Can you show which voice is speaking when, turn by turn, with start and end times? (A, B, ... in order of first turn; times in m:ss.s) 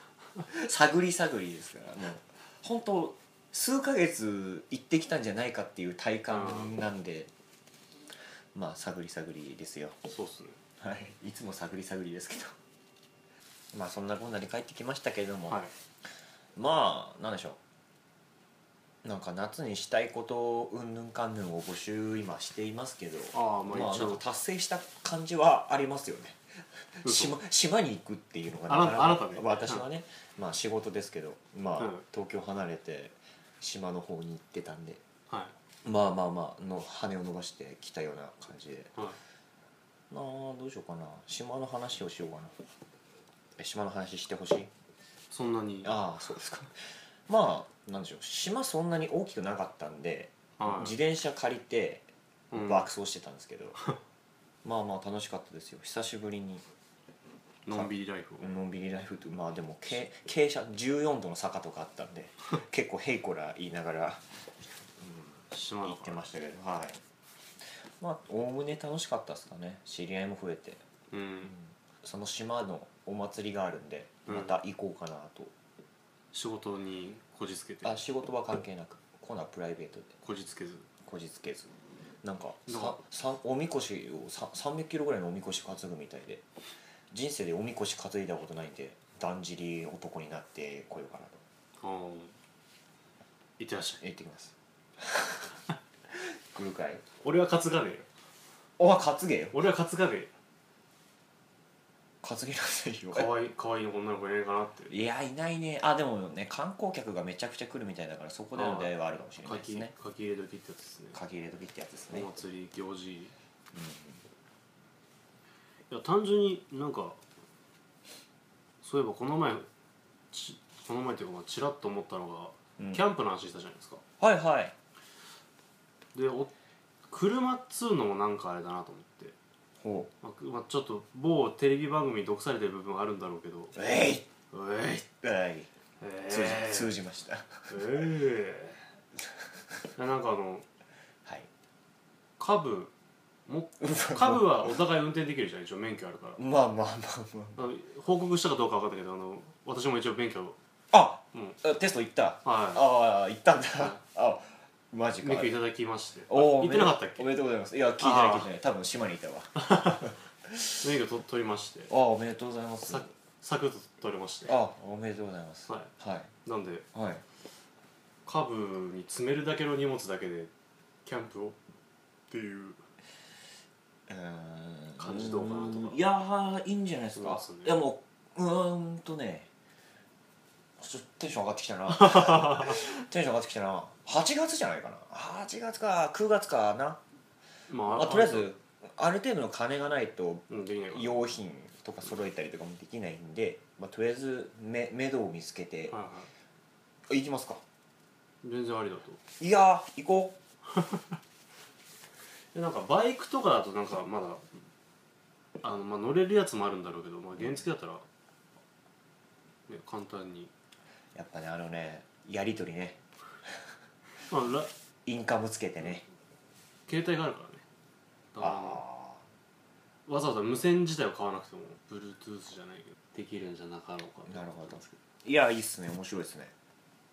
0:00.4-0:07.3 A
0:06.3-0:06.7 B
0:08.6-0:10.0 A
0:10.1-0:10.6 B
0:10.8-0:12.6 A
0:13.7-0:15.6 A
0:16.6-0:17.6 A
0:19.0-0:35.0 A
0:23.3-0:24.2 B
0:27.0-0:27.4 B
0:28.7-0:29.8 B
0:31.8-0:32.0 B
0:35.3-0:35.5 B
0:35.8-0:38.9 A
0:40.1-0:42.6 A
0:43.6-0:44.7 A
0:45.3-0:46.0 B
0:45.8-0:53.8 A
0:50.6-0:51.0 B
0:52.5-0:52.9 B
0:54.6-0:56.6 A
0:57.7-0:58.6 B
0:57.7-1:04.4 A
1:05.0-1:07.0 A
1:05.5-1:06.3 B
1:08.0-1:10.8 A
1:11.1-1:11.5 B
1:11.5-1:15.5 A
1:14.3-1:14.6 B
1:16.3-1:18.0 B
1:17.8-1:20.2 A
1:20.2-1:20.9 B
1:21.0-1:26.4 A
1:22.7-1:23.0 B
1:27.1-1:31.4 A
1:31.8-1:32.4 B
1:33.6-1:34.0 B
1:34.0-1:35.5 A
1:36.2-1:37.0 A
1:37.2-1:38.1 B
1:38.8-1:39.6 A
1:39.5-1:40.3 B
1:42.2-1:43.4 A
1:43.1-1:45.0 B
1:44.9-1:49.9 A
1:48.5-1:48.9 B
1:49.4-1:51.2 B
1:51.1-1:52.3 A
1:52.1-1:53.3 B
1:53.7-1:54.2 A
1:55.9-1:57.2 B
1:58.8-1:59.7 B
2:00.3-2:04.0 B
2:02.8-2:03.0 A
2:04.2-2:04.7 A
2:06.1-2:06.5 B
2:07.1-2:09.4 B
2:09.8-2:10.1 A
2:10.2-2:13.8 B
2:13.8-2:14.3 A
2:14.5-2:15.1 B
2:15.2-2:15.7 A
2:16.0-2:16.9 B
2:16.3-2:18.1 A
2:17.7-2:18.8 B
2:20.0-2:20.6 B
2:22.4-2:22.9 B
2:23.5-2:26.4 B
2:23.8-2:24.7 A
2:26.4-2:27.7 A
2:27.6-2:30.6 B
2:30.9-2:35.6 A
2:31.3-2:31.6 B
2:32.4-2:32.8 B
2:35.2-2:37.3 B
2:36.3-2:40.8 A
2:38.0-2:38.5 B
2:39.6-2:40.1 B
2:40.8-2:41.9 B
2:41.9-2:43.1 A
2:42.9-2:44.6 B
2:44.5-2:46.3 A
2:46.4-2:46.8 B
2:46.9-2:47.2 A
2:48.3-2:50.5 B
2:51.0-2:51.6 B
2:52.3-2:52.8 B
2:54.1-2:59.5 A
2:55.0-2:56.0 B
2:57.2-2:57.8 B
3:00.8-3:07.0 A
3:07.7-3:08.5 B
3:07.9-3:16.0 A
3:10.5-3:11.3 B
3:15.9-3:16.3 B
3:17.1-3:17.6 A
3:18.4-3:19.2 B
3:19.4-3:20.4 A
3:22.5-3:24.5 B
3:25.6-3:28.0 B
3:29.7-3:30.5 B
3:31.2-3:33.6 A
3:34.2-3:34.7 B
3:35.1-3:36.0 A
3:36.9-3:37.6 B
3:38.3-3:38.8 B
3:38.4-3:39.2 A
3:40.1-3:45.0 B
3:44.3-3:46.5 A